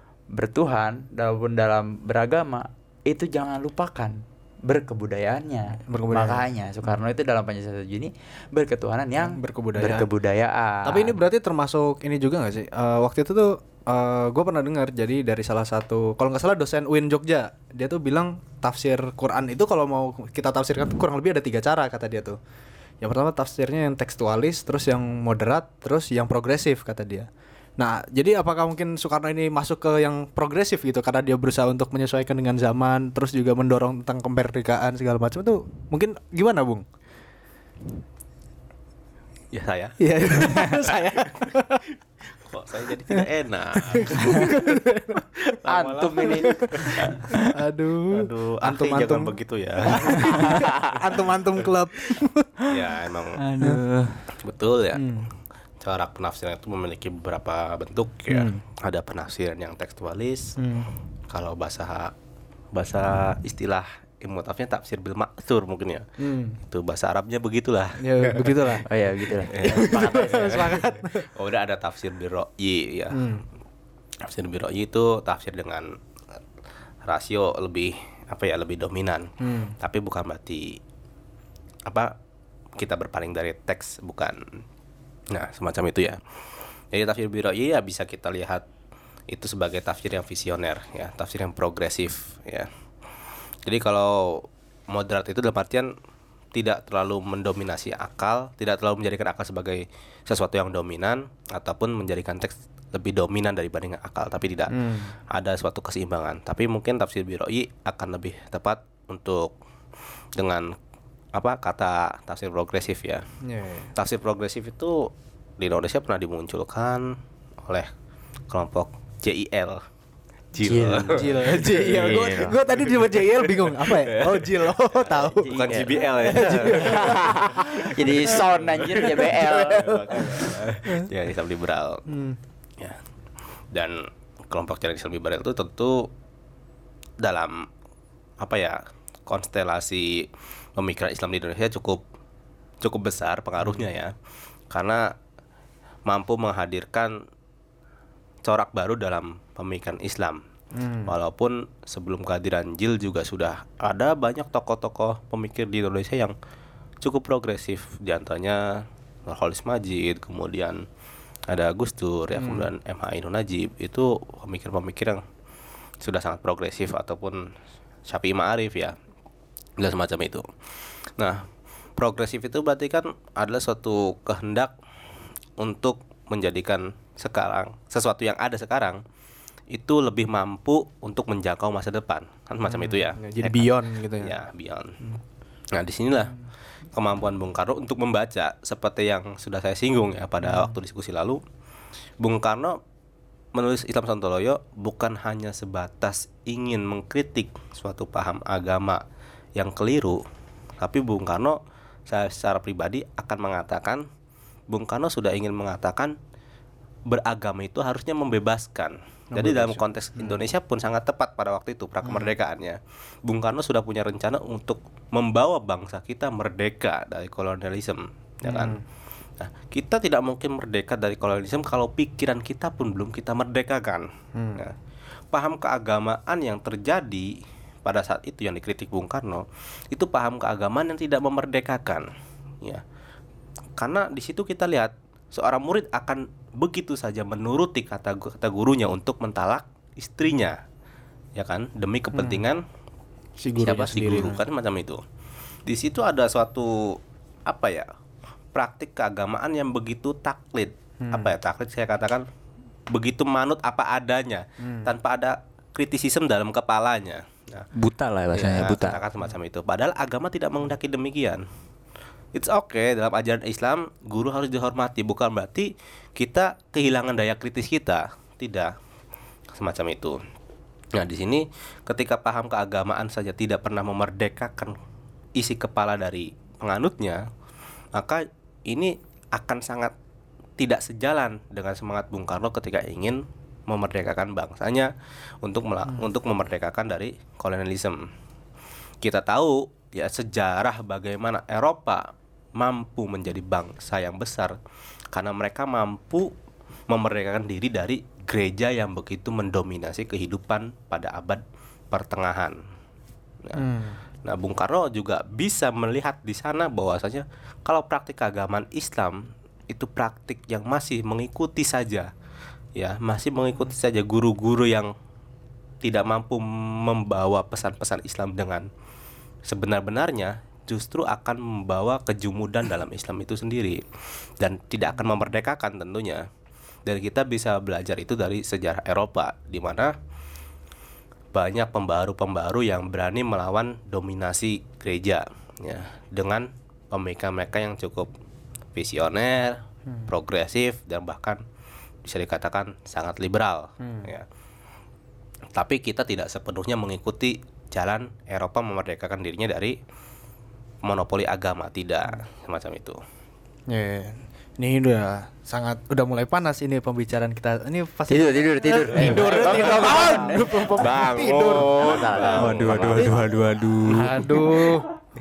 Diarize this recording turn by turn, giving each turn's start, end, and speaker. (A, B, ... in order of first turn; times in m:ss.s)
0:00.3-0:11.2 A
0:05.9-0:06.5 B
0:09.2-0:10.1 B
0:10.8-0:22.4 B
0:23.0-0:36.8 B
0:39.5-0:41.5 C
0:40.0-0:41.8 B
0:42.4-0:44.6 C
0:43.8-0:45.3 B
0:45.5-0:47.2 C
0:45.7-0:47.1 A
0:46.2-0:52.7 B
0:48.1-0:51.2 C
0:50.4-0:50.7 A
0:52.7-0:53.4 C
0:53.4-0:54.2 D
0:53.5-0:53.9 B
0:54.4-0:55.2 C
0:54.9-0:55.3 B
0:55.8-1:00.6 C
0:58.3-0:58.6 B
1:00.6-1:00.9 B
1:01.3-1:02.1 C
1:02.7-1:06.1 C
1:06.2-1:06.6 B
1:06.6-1:08.8 C
1:08.0-1:08.9 B
1:08.8-1:10.7 A
1:09.5-1:13.3 C
1:09.6-1:11.2 B
1:13.1-1:13.4 B
1:14.2-1:15.9 C
1:17.0-1:20.8 C
1:19.4-1:19.8 B
1:21.9-1:22.2 C
1:22.8-1:24.4 C
1:25.3-1:26.2 C
1:26.9-1:28.6 C
1:29.3-1:32.7 C
1:33.7-1:35.9 C
1:36.6-1:49.6 C
1:44.7-1:45.1 B
1:50.4-1:50.8 C
1:51.4-1:53.2 C
1:53.4-1:53.9 B
1:54.0-1:57.9 C
1:58.5-1:59.8 C
2:00.5-2:04.5 C
2:00.6-2:01.3 A
2:01.1-2:05.5 B
2:01.8-2:02.6 D
2:05.0-2:07.2 C
2:05.4-2:10.6 A
2:06.1-2:07.7 B
2:08.4-2:12.1 C
2:10.4-2:11.1 B
2:12.1-2:12.4 B
2:13.7-2:16.1 C
2:17.2-2:17.7 C
2:18.4-2:22.0 C
2:22.8-2:24.1 C
2:24.7-2:25.2 C
2:26.1-2:27.2 C
2:28.4-2:30.4 C
2:30.8-2:31.2 B
2:31.1-2:36.4 C
2:37.0-2:40.8 C
2:41.5-2:45.2 C
2:42.4-2:42.7 B
2:46.0-2:47.5 C
2:48.1-2:49.0 C
2:49.8-2:50.5 C
2:51.2-2:51.5 C
2:52.0-2:54.7 C
2:55.6-2:59.0 C
2:59.7-3:05.1 C
3:02.7-3:04.4 B
3:05.7-3:06.4 C
3:07.0-3:11.4 C
3:10.4-3:10.8 B
3:12.2-3:12.8 C
3:13.5-3:19.0 C
3:19.6-3:20.2 C
3:20.8-3:24.0 C
3:24.7-3:26.2 C
3:27.1-3:38.8 C
3:29.3-3:30.4 B
3:32.0-3:32.3 B
3:38.5-3:38.8 B
3:39.4-3:44.8 C
3:44.4-3:44.6 B
3:45.3-3:52.1 C
3:53.8-4:00.6 C
4:01.4-4:02.6 C
4:02.2-4:02.4 B
4:03.4-4:04.4 B
4:03.6-4:05.0 C
4:05.7-4:07.9 C
4:08.5-4:12.2 C
4:11.0-4:11.3 B
4:12.9-4:17.7 C
4:14.6-4:14.9 B
4:17.8-4:19.0 D
4:18.3-4:21.4 C
4:22.3-4:28.7 C
4:29.5-4:30.2 C
4:31.0-4:34.8 C
4:35.4-4:37.3 C
4:38.0-4:40.0 C
4:40.6-4:44.9 C
4:45.4-4:48.1 C
4:49.0-4:52.0 C
4:52.6-4:54.6 C
4:55.1-4:56.3 C
4:56.9-5:02.6 C
5:03.6-5:04.0 B
5:04.2-5:12.1 C
5:12.8-5:14.9 C
5:15.8-5:18.7 C
5:19.5-5:23.8 C
5:24.4-5:26.3 C
5:26.9-5:30.0 C
5:31.3-5:38.1 C
5:38.8-5:41.4 C
5:42.0-5:44.3 C
5:43.8-5:44.1 B
5:45.6-5:49.8 C
5:50.8-5:53.0 C
5:53.7-6:02.3 B
5:58.1-6:04.8 A
5:59.0-6:00.0 D
5:59.5-6:03.4 C
6:02.4-6:04.3 D
6:03.8-6:04.9 B